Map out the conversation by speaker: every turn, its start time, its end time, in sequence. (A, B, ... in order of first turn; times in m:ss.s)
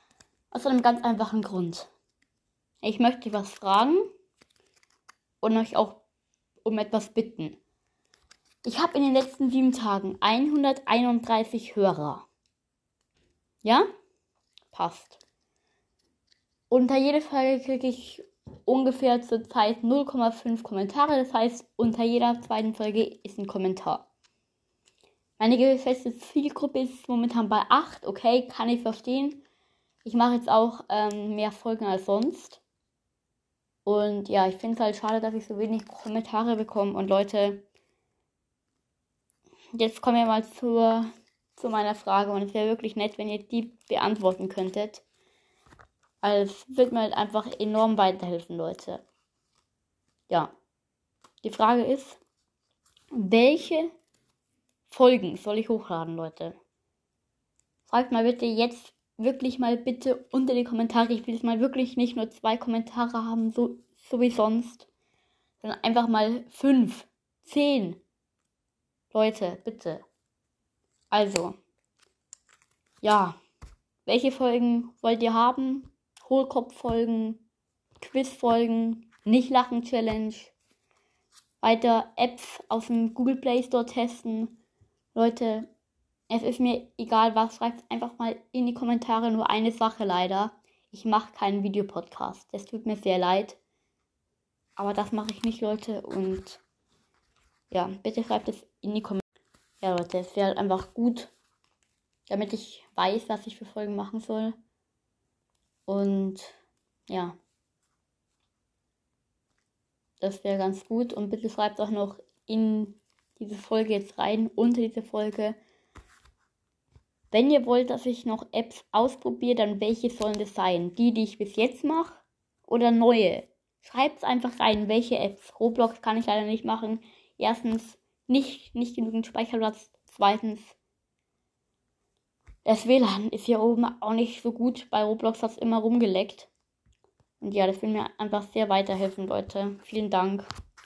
0:00.5-0:01.9 A
0:02.8-0:04.0 A
0:05.4-0:06.0 A
0:06.6-0:07.6 A
0:08.6-0:12.2 A
0:14.7-0:15.2 A
0:16.7-0:24.0 A
0:25.4-0:29.4 A
0:30.0-0:32.6 A
0:33.8-0:37.6 A
0:39.8-0:45.0 A
0:46.2-0:49.0 A
0:51.4-0:52.2 A
0:53.1-0:53.9 A
0:54.9-0:56.6 A
0:57.9-1:04.9 A
1:05.6-1:08.0 A
1:09.1-1:10.0 A
1:11.1-1:11.6 A
1:13.0-1:13.4 A
1:14.0-1:17.4 A
1:18.0-1:20.5 A
1:21.6-1:24.5 A
1:25.1-1:25.7 A
1:26.3-1:33.6 A
1:34.8-1:36.6 A
1:37.7-1:39.2 A
1:39.8-1:41.3 A
1:42.3-1:44.6 A
1:45.9-1:46.5 A
1:47.1-1:47.4 A
1:50.2-1:55.6 A
1:57.3-2:10.8 A
2:12.6-2:16.5 A
2:17.4-2:20.5 A